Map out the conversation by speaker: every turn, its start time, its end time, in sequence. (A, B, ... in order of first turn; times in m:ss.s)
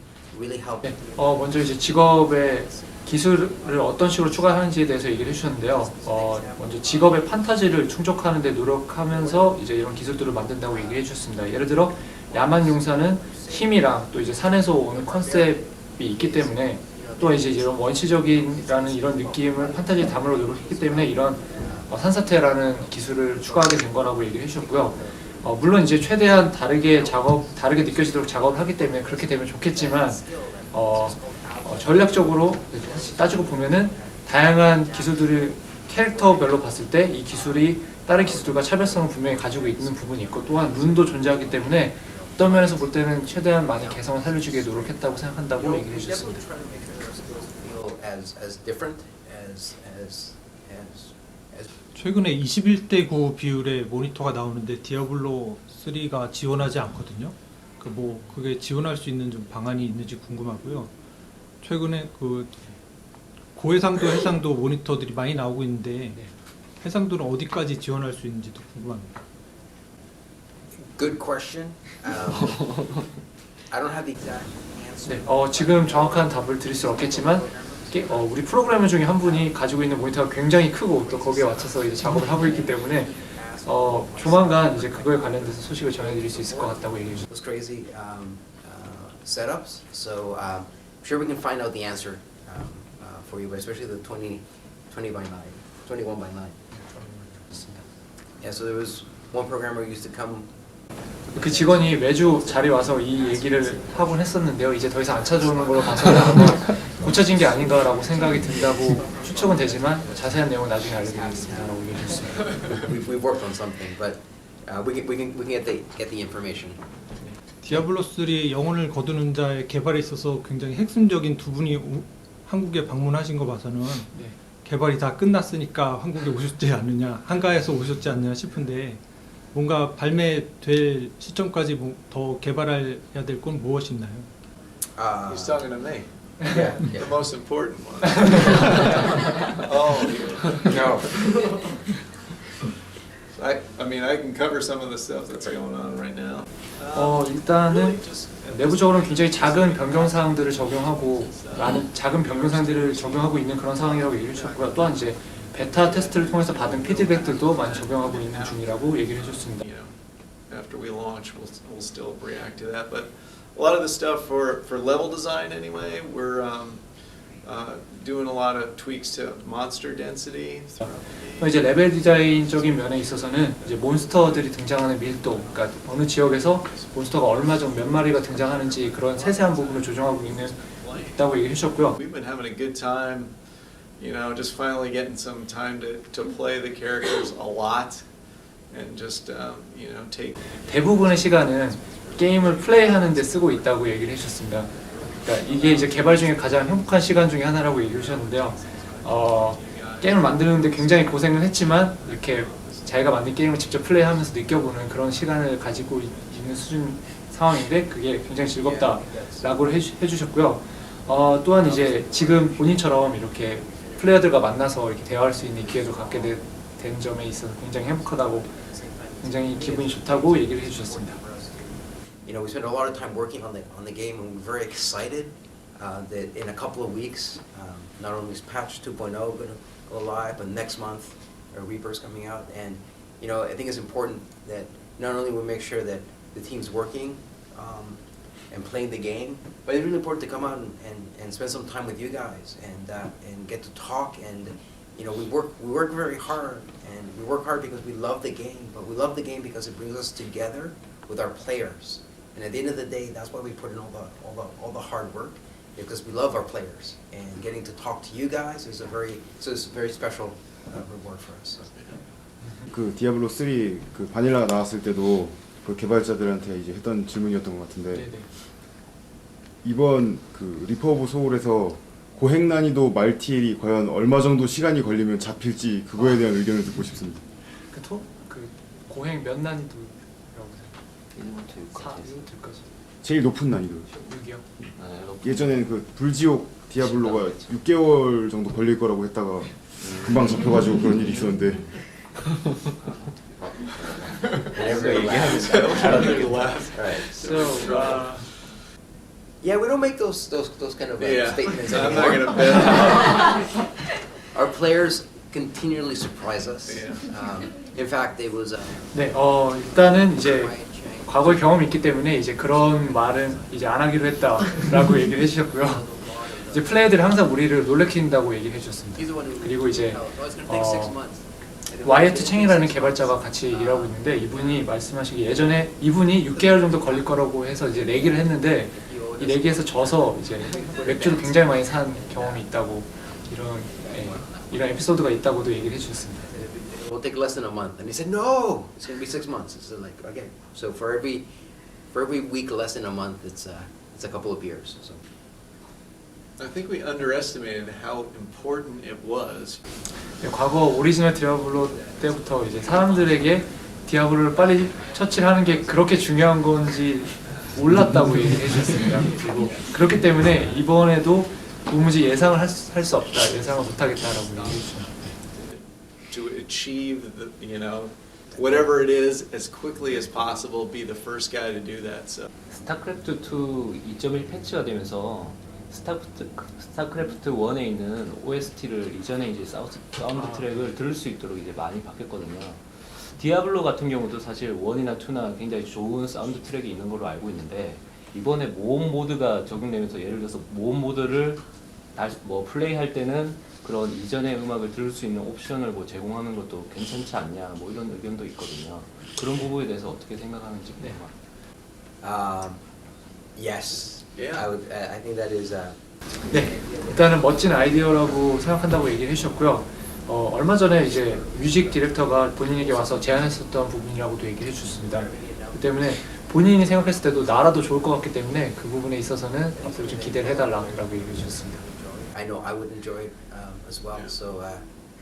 0:00.3-0:08.1 A
0:00.8-0:46.4 B
0:09.1-0:11.1 A
0:12.3-0:51.7 A
0:52.0-1:00.9 C
1:01.6-1:02.7 C
1:03.5-1:06.3 C
1:06.8-1:09.2 C
1:10.8-1:13.2 A
1:13.7-1:36.6 A
1:15.0-1:27.2 B
1:36.7-1:37.9 B
1:38.4-1:40.5 A
1:41.2-1:56.8 A
1:41.3-1:52.8 B
1:52.4-1:52.8 D
1:57.2-1:57.8 B
1:57.6-2:14.3 C
2:04.1-2:04.4 B
2:15.0-2:15.9 A
2:15.3-2:21.7 D
2:16.4-2:17.2 A
2:20.6-2:21.7 A
2:23.3-3:26.6 D
2:26.9-2:39.7 B
2:50.8-3:02.0 B
3:10.7-3:38.5 B
3:28.5-3:29.7 A
3:31.6-3:34.7 A
3:35.4-3:36.5 A
3:37.6-4:21.7 A
3:39.2-3:41.2 B
4:21.7-4:22.0 D
4:22.7-4:28.2 E
4:27.9-4:28.3 B
4:29.6-4:37.3 E
4:37.7-4:40.8 B
4:41.2-4:42.3 F
4:41.8-4:42.7 B
4:43.0-4:43.9 E
4:43.9-4:44.4 B
4:44.8-4:45.7 F
4:45.2-4:51.8 E
4:46.8-4:47.6 F
4:49.8-4:56.4 F
4:54.2-4:58.5 D
4:54.5-4:57.1 A
4:57.1-4:58.3 B
4:59.4-5:03.6 A
5:01.0-5:03.5 D
5:04.3-5:09.0 A
5:06.6-5:07.1 D
5:08.9-5:15.9 B
5:09.6-5:14.6 A
5:15.4-5:17.0 A
5:16.5-5:21.0 B
5:19.0-5:24.7 A
5:21.8-5:36.3 B
5:26.3-5:32.5 A
5:33.7-5:35.6 A
5:36.2-5:41.4 A
5:41.9-5:45.0 A
5:46.4-5:49.6 D
5:50.2-6:05.1 B
5:51.3-5:57.6 A
5:58.8-6:02.3 A
6:02.7-6:04.7 D
6:05.3-6:12.3 D
6:08.4-6:08.7 A
6:12.5-6:31.4 F
6:20.1-6:20.7 B
6:32.0-6:41.2 F
6:42.0-6:42.6 A
6:43.4-6:48.6 A
6:44.2-6:44.5 D
6:46.3-7:01.6 B
6:50.7-6:53.3 A
6:54.8-6:55.8 A
6:56.5-6:58.0 A
6:59.5-7:04.7 A